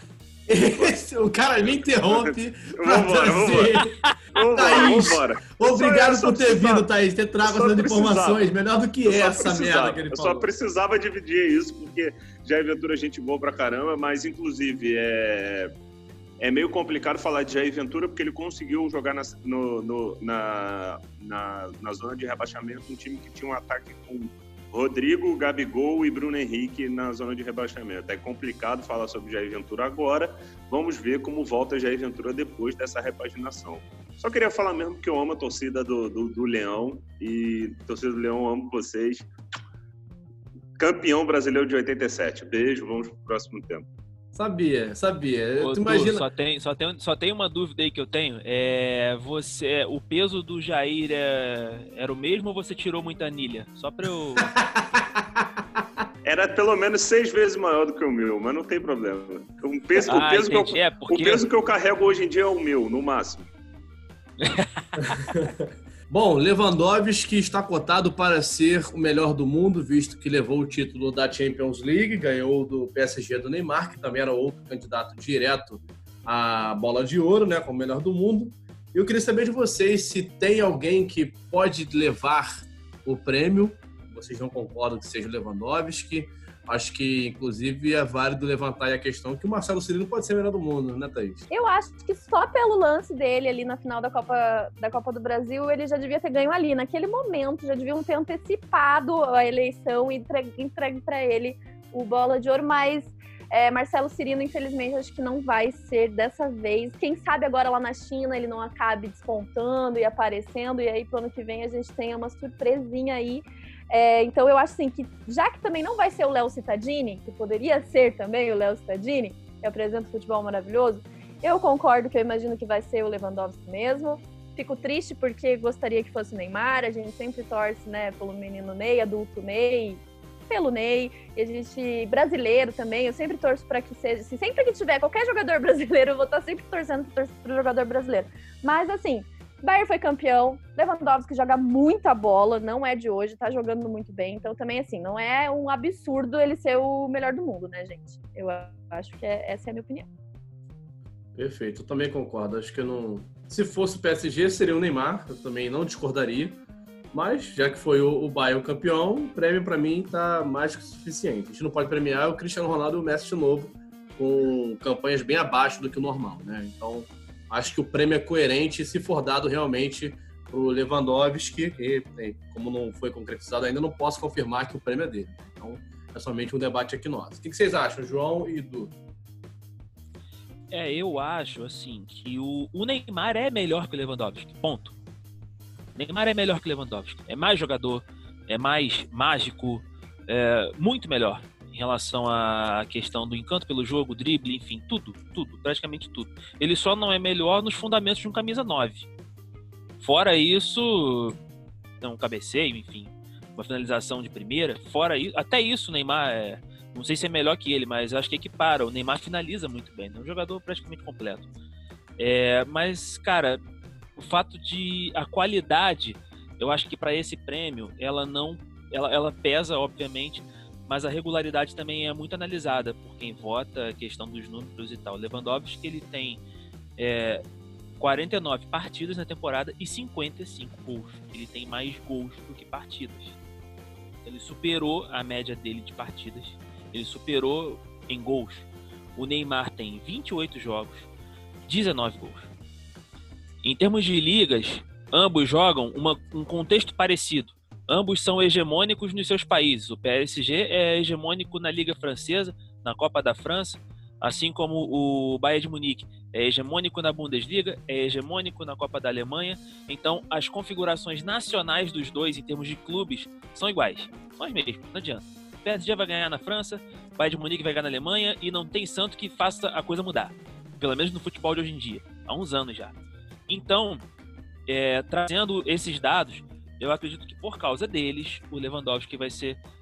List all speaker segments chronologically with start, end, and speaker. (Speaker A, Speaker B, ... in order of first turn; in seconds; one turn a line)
Speaker A: 0.5-3.9
Speaker B: 0.6-0.9
Speaker B: 1.6-6.9
Speaker A: 4.5-10.5
Speaker B: 7.4-8.5
Speaker B: 9.1-15.7
Speaker B: 16.4-39.3
Speaker B: 40.8-43.9
Speaker A: 44.3-46.3
Speaker C: 45.6-54.5
Speaker A: 54.5-55.5
Speaker B: 56.2-63.5
Speaker C: 60.0-61.4
Speaker C: 64.4-64.9
Speaker A: 65.0-91.5
Speaker D: 91.5-150.1
Speaker A: 151.3-156.6
Speaker A: 157.1-178.9
Speaker C: 180.7-184.9
Speaker C: 186.0-199.1
Speaker C: 200.0-201.4
Speaker C: 202.0-211.5
Speaker C: 212.2-213.6
Speaker C: 214.2-226.4
Speaker C: 227.0-227.4
Speaker C: 228.0-233.4
Speaker C: 234.2-241.1
Speaker C: 241.7-242.5
Speaker C: 243.6-272.9
Speaker C: 273.5-274.0
Speaker C: 274.7-279.6